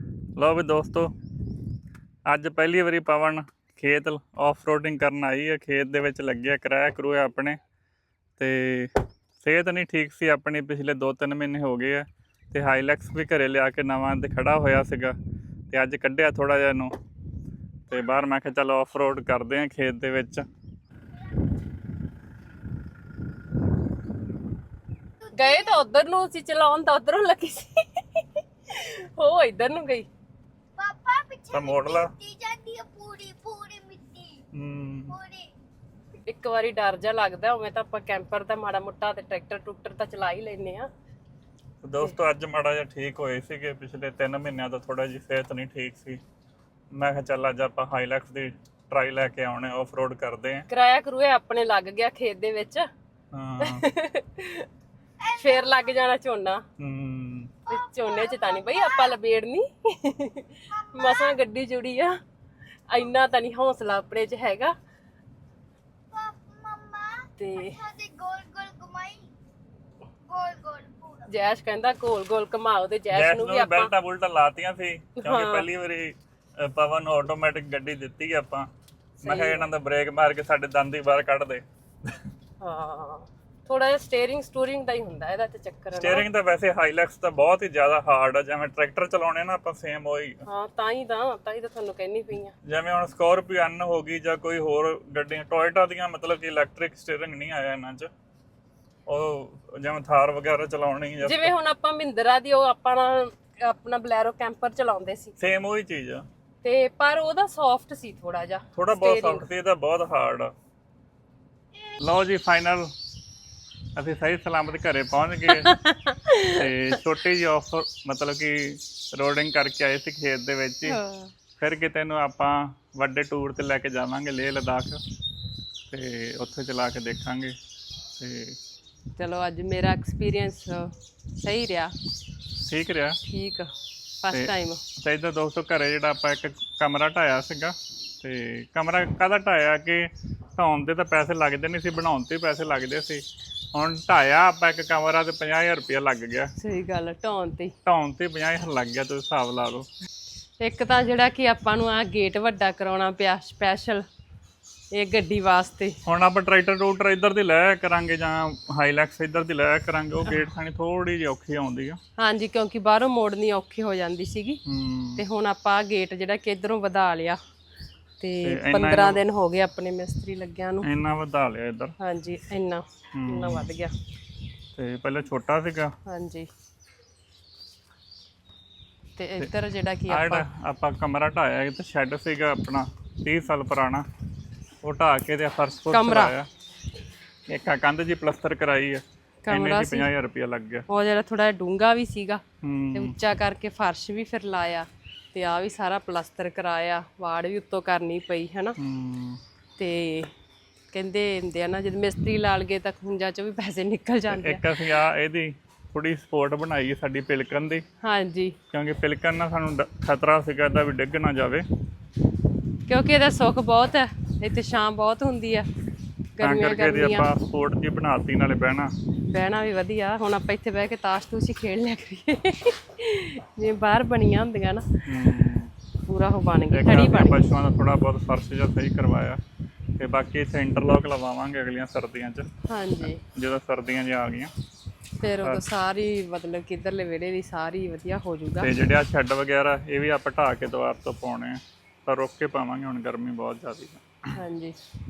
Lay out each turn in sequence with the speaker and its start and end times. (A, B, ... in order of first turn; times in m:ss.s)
0:00.4-0:01.1 A
0:02.3-0:07.6 A
0:08.4-0:15.2 A
0:15.7-0:16.9 A
0:17.9-0:20.5 A
0:25.3-0:30.1 B
0:30.8-0:34.4 C
0:31.5-0:32.1 A
0:34.5-0:35.2 A
0:35.2-0:35.5 C
0:36.3-0:40.9 B
0:41.8-0:46.2 A
0:46.9-0:50.7 A
0:50.7-0:52.9 B
0:53.3-0:53.9 A
0:53.6-0:54.7 B
0:55.2-0:56.6 B
0:56.8-0:57.6 A
0:57.7-1:02.2 B
1:02.9-1:04.7 B
1:06.1-1:09.3 C
1:07.4-1:07.9 B
1:10.2-1:11.2 C
1:11.2-1:13.9 B
1:13.1-1:22.2 A
1:15.2-1:15.7 B
1:19.2-1:19.7 B
1:22.6-1:26.2 B
1:26.0-1:30.4 A
1:30.5-1:32.5 B
1:32.6-1:38.1 A
1:39.1-1:41.5 A
1:41.2-1:45.4 B
1:45.4-1:46.3 A
1:46.6-1:49.5 B
1:48.8-1:50.5 A
1:52.0-1:52.9 A
1:54.0-1:55.8 A
1:55.5-1:56.7 B
1:56.5-2:01.0 A
2:00.8-2:01.3 B
2:01.6-2:05.0 A
2:05.9-2:07.6 A
2:08.2-2:08.6 A
2:09.2-2:11.9 B
2:12.6-2:13.2 A
2:13.3-2:13.7 B
2:14.2-2:14.8 B
2:14.3-2:26.5 A
2:26.6-2:27.7 B
2:27.8-2:29.9 A
2:30.6-2:34.0 B
2:34.9-2:36.0 B
2:36.0-2:42.0 A
2:42.2-2:44.6 B
2:44.6-2:45.2 A
2:45.2-2:47.4 B
2:48.2-2:50.9 B
2:48.4-2:49.2 A
2:50.8-2:51.9 A
2:52.0-2:53.9 B
2:53.1-2:53.7 A
2:54.8-2:56.0 A
2:56.1-2:56.5 B
2:59.2-3:00.5 B
3:00.1-3:04.1 A
3:04.8-3:06.5 A
3:05.9-3:06.3 B
3:07.5-3:10.9 A
3:09.4-3:10.1 B
3:10.9-3:12.4 B
3:12.6-3:13.2 A
3:12.9-3:18.8 B
3:18.8-3:19.4 A
3:19.8-3:20.3 B
3:20.9-3:24.6 B
3:24.3-3:27.8 A
3:28.0-3:28.6 B
3:28.7-3:31.7 A
3:32.9-3:35.7 B
3:36.4-3:37.3 B
3:36.4-3:38.9 A
3:39.3-3:45.0 B
3:45.1-3:45.7 A
3:46.1-3:47.4 B
3:46.7-3:49.4 A
3:50.0-3:52.5 A
3:52.7-3:53.2 B
3:53.0-3:54.5 A
3:55.2-3:58.7 B
3:58.6-4:04.1 A
4:04.4-4:04.8 B